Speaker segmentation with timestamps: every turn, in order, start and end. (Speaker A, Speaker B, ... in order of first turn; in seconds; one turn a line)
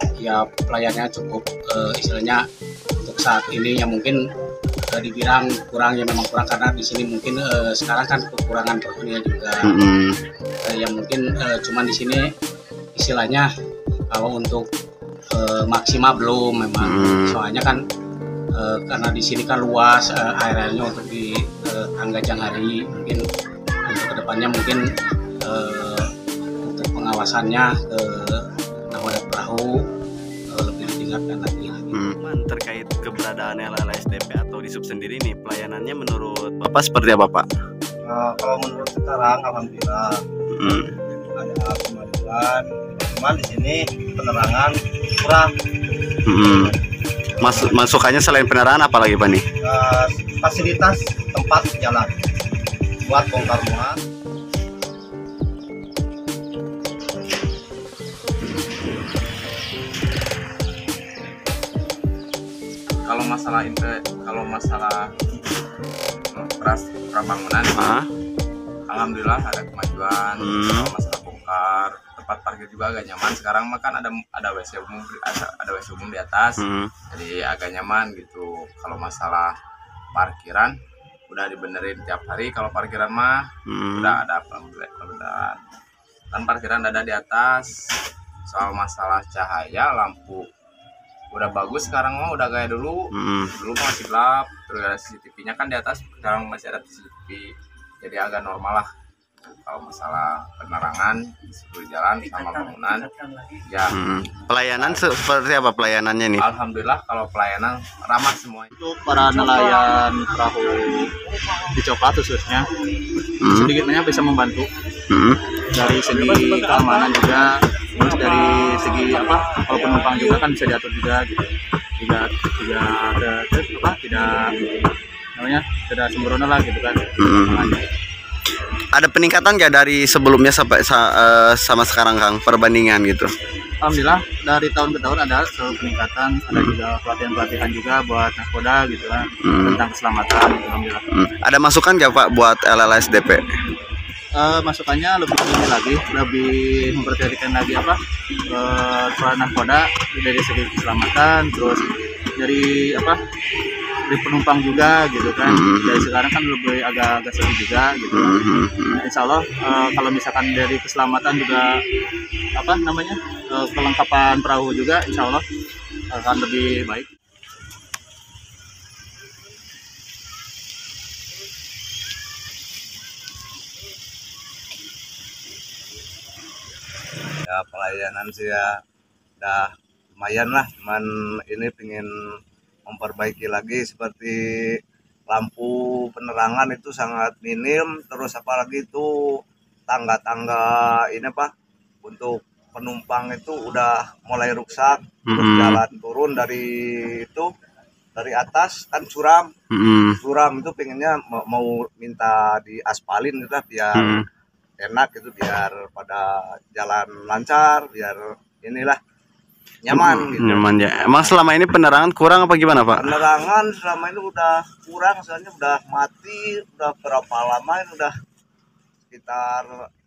Speaker A: 0.2-2.4
Speaker A: 3.0-4.2
Speaker A: 4.9-9.7
Speaker B: 9.6-10.2
Speaker A: 10.7-12.2
Speaker A: 12.9-13.5
Speaker A: 14.1-14.7
Speaker A: 15.3-17.8
Speaker B: 16.8-17.4
Speaker A: 18.6-23.2
Speaker A: 23.9-24.8
Speaker A: 25.4-26.1
Speaker A: 26.6-29.8
Speaker A: 30.5-32.0
Speaker B: 31.9-37.5
Speaker C: 38.1-40.1
Speaker B: 40.5-40.9
Speaker C: 41.4-45.5
Speaker B: 46.3-46.7
Speaker B: 47.4-49.4
Speaker C: 49.6-52.1
Speaker C: 53.1-53.9
Speaker D: 63.1-65.1
Speaker D: 66.3-68.0
Speaker B: 67.8-68.1
Speaker D: 68.9-79.5
Speaker B: 70.4-70.9
Speaker B: 76.6-76.9
Speaker D: 80.1-80.8
Speaker D: 81.3-85.6
Speaker B: 83.7-84.2
Speaker D: 86.3-87.7
Speaker D: 88.5-90.5
Speaker D: 91.3-97.5
Speaker B: 93.1-93.5
Speaker D: 98.0-98.9
Speaker D: 99.4-103.1
Speaker D: 103.7-104.0
Speaker B: 103.9-106.5
Speaker D: 104.8-105.1
Speaker D: 106.4-108.7
Speaker E: 108.8-112.7
Speaker B: 113.4-113.7
Speaker E: 113.5-114.7
Speaker B: 115.1-115.4
Speaker E: 115.7-121.5
Speaker E: 122.0-124.5
Speaker E: 125.4-127.8
Speaker B: 127.2-127.8
Speaker B: 128.9-133.3
Speaker E: 133.8-141.1
Speaker B: 139.4-139.8
Speaker B: 141.1-143.5
Speaker E: 144.4-148.0
Speaker E: 148.5-153.2
Speaker E: 154.1-158.4
Speaker B: 155.5-156.1
Speaker B: 158.1-159.0
Speaker E: 159.0-161.7
Speaker E: 162.6-165.4
Speaker E: 166.1-167.1
Speaker C: 177.5-178.7
Speaker C: 179.4-182.1
Speaker C: 182.9-184.4
Speaker C: 185.3-189.1
Speaker C: 189.9-191.5
Speaker C: 192.0-196.7
Speaker B: 195.3-195.8
Speaker C: 197.2-197.5
Speaker C: 198.2-199.5
Speaker B: 199.7-200.2
Speaker C: 200.2-204.2
Speaker B: 203.9-204.2
Speaker C: 204.8-209.0
Speaker C: 209.8-211.3
Speaker B: 209.9-213.2
Speaker C: 212.9-218.1
Speaker C: 219.1-219.7